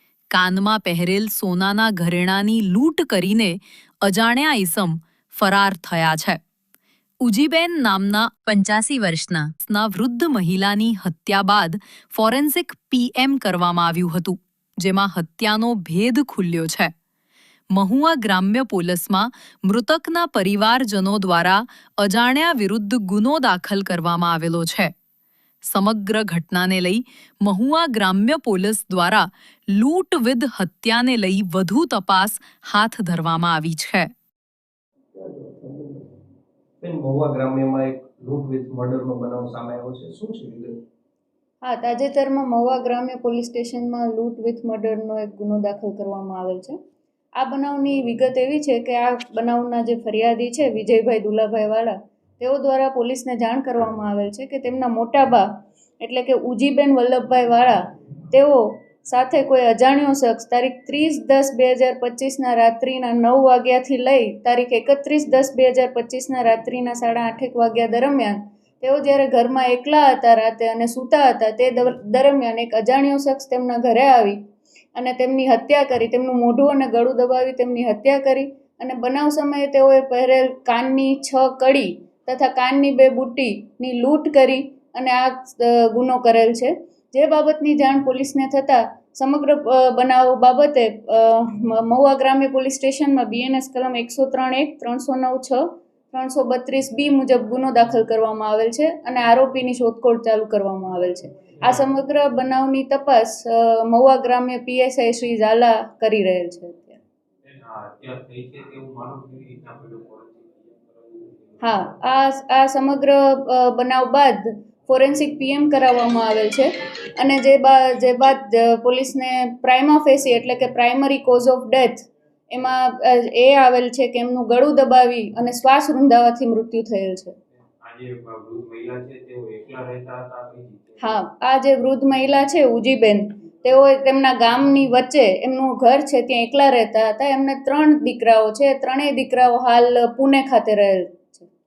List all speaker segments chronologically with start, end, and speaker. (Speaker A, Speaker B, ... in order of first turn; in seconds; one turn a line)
Speaker A: 0.3-6.4
Speaker A: 7.2-16.9
Speaker A: 17.7-24.9
Speaker A: 25.6-34.1
Speaker B: 35.1-36.1
Speaker B: 36.8-40.7
Speaker C: 41.6-46.8
Speaker C: 47.4-55.5
Speaker C: 56.0-74.4
Speaker C: 74.9-107.0
Speaker B: 107.7-110.4
Speaker C: 111.6-127.3
Speaker B: 127.8-130.9
Speaker C: 131.0-141.5